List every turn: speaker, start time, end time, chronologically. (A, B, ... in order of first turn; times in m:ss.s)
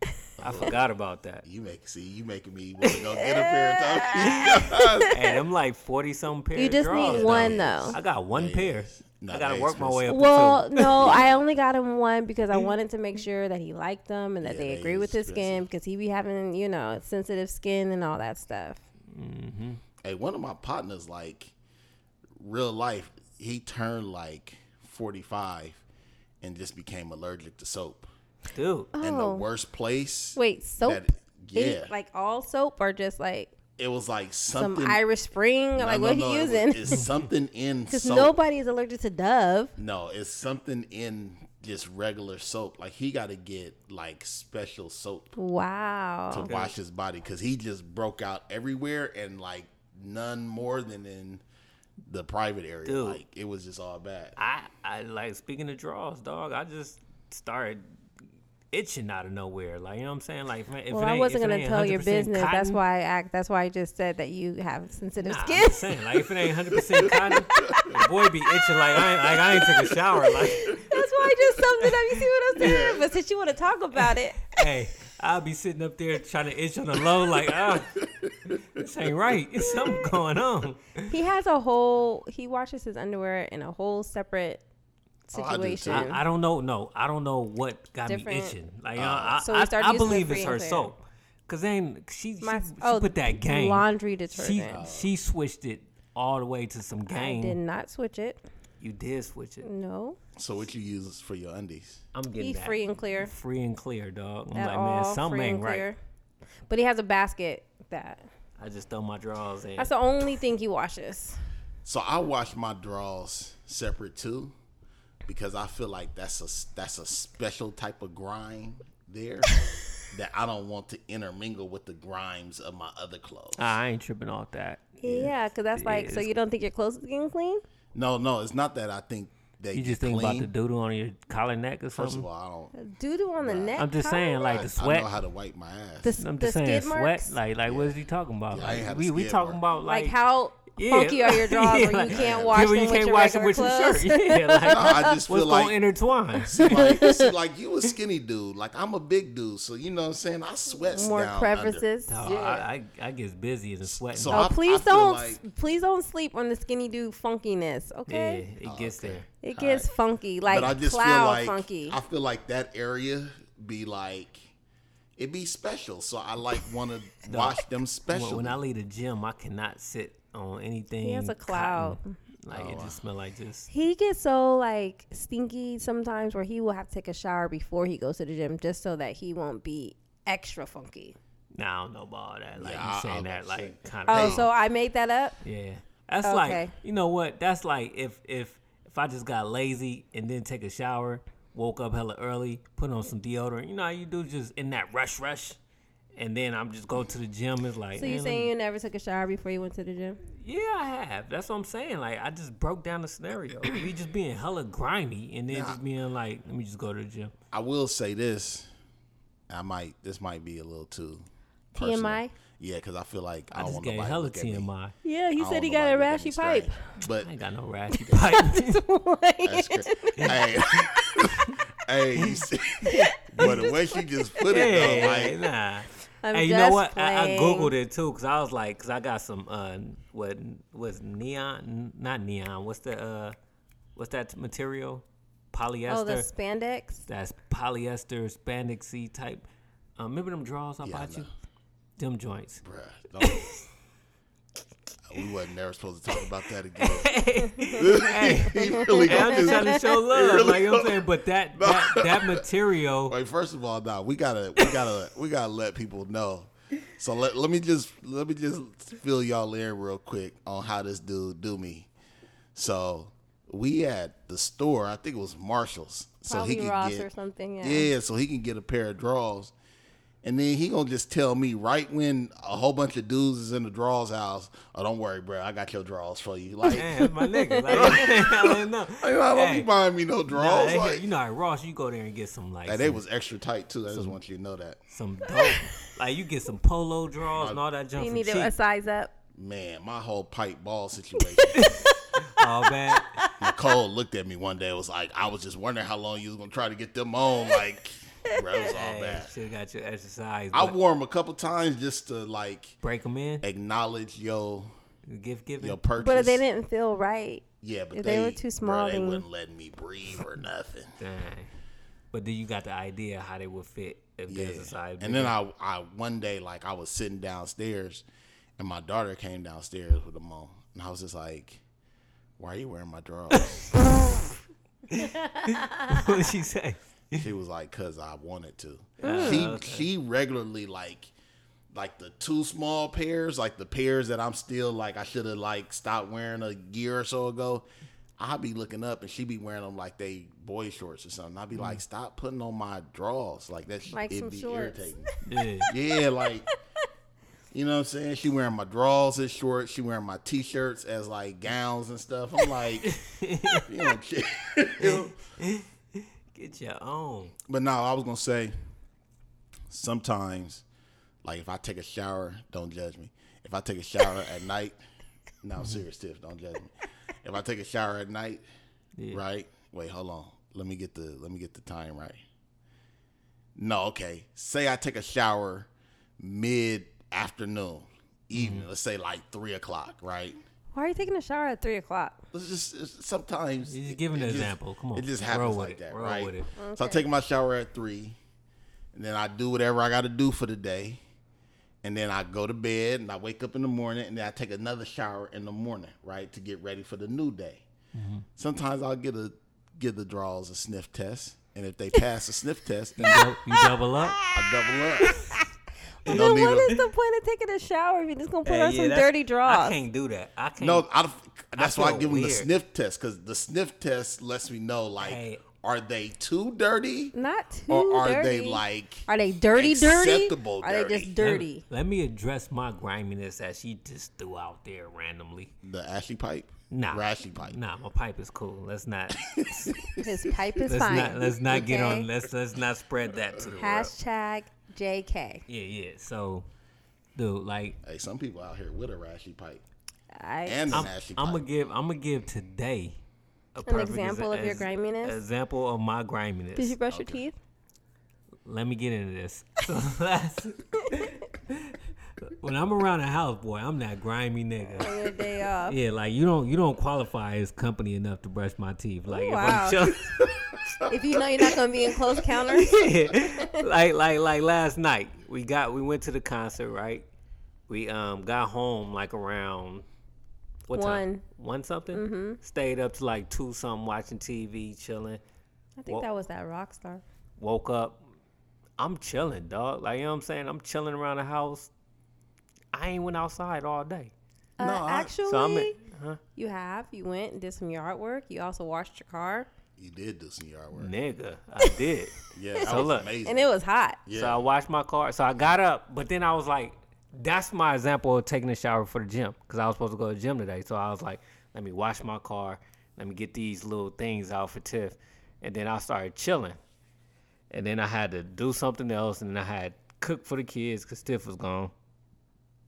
0:00.4-0:00.8 A
0:00.4-0:01.4 B
0:01.4-0:05.1 A
0:02.9-0:05.4 C
0:05.1-0:11.2 B
0:06.5-0:08.0 C
0:06.9-0:10.1 A
0:10.1-0:18.8 C
0:10.8-0:11.4 A
0:14.4-0:15.6 A
0:19.1-0:19.8 B
0:20.0-0:21.5 A
0:22.4-0:25.8 A
0:26.4-0:28.1 A
0:28.5-0:28.9 B
0:28.9-0:29.4 C
0:29.0-0:31.9 A
0:30.4-0:33.5 C
0:33.8-0:35.0 A
0:34.5-0:37.0 C
0:35.8-0:38.3 A
0:37.9-0:39.7 C
0:39.8-0:45.3 A
0:45.4-0:46.5 C
0:46.3-0:51.4 A
0:46.4-0:46.7 B
0:52.0-0:54.4 A
0:52.8-0:53.2 B
0:54.4-0:57.9 B
0:58.7-1:02.8 B
1:00.9-1:06.1 C
1:05.2-1:11.0 B
1:07.0-1:14.6 C
1:07.6-1:07.8 A
1:11.6-1:12.7 B
1:12.6-1:13.0 A
1:13.9-1:21.1 B
1:18.0-1:18.6 A
1:21.1-1:24.6 C
1:25.3-1:26.2 C
1:25.3-1:26.1 A
1:25.9-1:37.6 B
1:28.1-1:28.6 C
1:29.0-1:29.4 A
1:29.4-1:30.9 C
1:32.4-1:34.8 C
1:34.7-1:35.1 A
1:37.1-1:38.4 C
1:38.8-1:39.6 B
1:39.6-1:40.2 C
1:40.4-1:42.0 A
1:42.1-1:45.9 B
1:42.4-1:43.3 C
1:44.5-1:46.0 C
1:46.7-1:48.2 C
1:48.6-1:49.9 B
1:49.8-1:51.4 C
1:51.8-1:54.5 A
1:55.2-2:03.6 A
2:03.6-2:06.3 B
2:05.0-2:07.6 C
2:05.0-2:05.3 A
2:07.9-2:10.5 A
2:09.7-2:12.2 B
2:11.9-2:12.7 A
2:12.7-2:14.6 C
2:13.4-2:13.8 A
2:13.8-2:15.1 B
2:14.5-2:16.2 A
2:16.0-2:17.4 C
2:16.2-2:20.2 B
2:17.6-2:18.0 A
2:18.5-2:19.6 A
2:19.8-2:25.2 C
2:20.8-2:27.0 B
2:22.1-2:22.7 A
2:24.6-2:25.8 A
2:26.4-2:32.6 A
2:26.6-2:27.3 C
2:30.8-2:32.5 C
2:32.1-2:34.5 B
2:33.8-2:35.4 A
2:34.3-2:38.4 C
2:38.1-2:39.3 B
2:38.6-2:39.9 A
2:39.4-2:42.0 C
2:40.4-2:44.5 A
2:45.2-2:48.6 A
2:47.2-2:53.7 B
2:51.0-2:52.2 C
2:52.5-2:53.0 A
2:53.7-3:01.2 C
3:01.5-3:04.5 B
3:02.6-3:04.5 A
3:04.1-3:05.4 C
3:05.4-3:15.6 B
3:06.2-3:06.7 C
3:16.1-3:18.5 B
3:18.0-3:20.2 C
3:20.3-3:27.3 B
3:25.5-3:25.8 A
3:27.5-3:28.7 A
3:29.5-3:34.7 A
3:31.7-3:32.3 C
3:33.5-3:34.9 B
3:35.0-3:36.9 C
3:35.4-3:37.3 A
3:37.1-3:38.8 B
3:37.9-3:41.2 C
3:39.4-3:45.4 A
3:42.2-3:43.7 B
3:42.8-3:45.3 C
3:44.5-3:53.4 B
3:46.2-3:47.7 C
3:53.9-3:56.3 B
3:55.9-3:57.0 C
3:57.0-3:59.4 B
4:00.0-4:01.3 B
4:00.8-4:01.3 A
4:02.0-4:02.6 B
4:02.6-4:03.5 A
4:03.2-4:03.6 B
4:05.1-4:07.1 A
4:06.8-4:13.1 B
4:07.7-4:12.4 A
4:08.8-4:09.8 C
4:13.1-4:21.9 A
4:14.6-4:14.9 B
4:22.5-4:27.1 A
4:26.3-4:27.9 C
4:27.6-4:29.5 A
4:30.2-4:37.0 A
4:36.7-4:39.7 B
4:36.7-4:38.0 C
4:37.7-4:41.0 A
4:40.3-4:43.0 B
4:42.6-4:44.8 A
4:43.9-4:44.2 B
4:44.9-4:48.5 B
4:47.4-4:47.6 A
4:48.0-4:49.1 C
4:49.3-4:51.7 A
4:51.4-4:53.5 C
4:51.6-4:53.3 B
4:53.4-4:59.3 A
4:58.6-5:00.8 B
5:00.5-5:02.8 A
5:02.8-5:03.4 B
5:03.4-5:04.7 A
5:05.0-5:05.8 B
5:05.6-5:06.4 A
5:06.0-5:09.2 C
5:07.6-5:11.0 A
5:11.0-5:11.5 B
5:12.1-5:15.3 B
5:14.3-5:18.0 A
5:18.6-5:21.6 A
5:22.4-5:23.7 A
5:23.3-5:24.0 B
5:24.9-5:27.2 B
5:25.4-5:26.0 C
5:27.1-5:31.1 A
5:29.0-5:29.9 B
5:29.0-5:29.4 C
5:31.7-5:37.6 A
5:38.2-5:45.1 A
5:41.5-5:41.8 B
5:43.9-5:45.0 C
5:45.2-5:45.7 B
5:45.6-5:46.5 A
5:47.5-5:52.9 A
5:52.8-5:53.7 B
5:53.6-5:55.1 A
5:54.8-5:57.3 B
5:57.5-5:58.5 A
5:59.7-6:00.6 A
6:01.2-6:04.8 A
6:05.4-6:08.4 A
6:09.1-6:12.2 A
6:13.6-6:20.4 A
6:18.3-6:18.6 B
6:20.7-6:22.2 C
6:22.3-6:28.2 A
6:23.6-6:26.5 B
6:26.6-6:27.0 C
6:28.9-6:31.0 A
6:31.8-6:37.6 A
6:37.9-6:38.2 B
6:38.4-6:43.3 A
6:43.0-6:44.2 B
6:43.1-6:44.4 C
6:44.3-6:45.2 A
6:45.0-6:45.4 C
6:45.0-6:45.3 B
6:46.0-6:49.8 C
6:46.0-6:46.8 B
6:46.1-6:46.7 A
6:48.4-6:50.8 B
6:50.6-6:57.1 A
6:51.5-6:52.5 B
6:55.0-6:55.4 B
6:57.1-7:01.6 C
6:57.7-7:01.1 A
7:01.2-7:05.5 B
7:05.6-7:07.6 A
7:06.7-7:09.8 B
7:09.2-7:10.1 A
7:09.9-7:12.1 C
7:10.6-7:13.9 B
7:13.6-7:15.4 C
7:15.5-7:16.5 B
7:17.1-7:17.8 B
7:17.8-7:19.6 A
7:20.2-7:20.9 C
7:20.4-7:21.4 A
7:20.7-7:23.0 B
7:23.5-7:26.8 B
7:23.6-7:25.2 C
7:26.6-7:27.3 C
7:26.9-7:27.2 A
7:28.4-7:35.0 B
7:30.8-7:31.1 C
7:34.7-7:35.8 C
7:35.6-7:40.2 B
7:39.1-7:39.9 C
7:40.9-7:43.6 C
7:42.5-7:47.0 B
7:47.7-7:49.9 B
7:50.7-7:55.2 B
7:50.7-7:51.2 C
7:51.9-7:52.4 C
7:55.8-7:57.0 C
7:57.4-7:58.0 B
7:58.8-8:01.7 B
8:02.7-8:04.1 B
8:04.6-8:05.8 C
8:04.6-8:05.1 A
8:05.2-8:06.2 B
8:06.4-8:09.5 C
8:09.8-8:10.9 A
8:10.7-8:13.1 B
8:12.3-8:13.5 A
8:12.6-8:14.0 C
8:14.0-8:14.4 A
8:14.1-8:26.6 B
8:27.5-8:31.7 B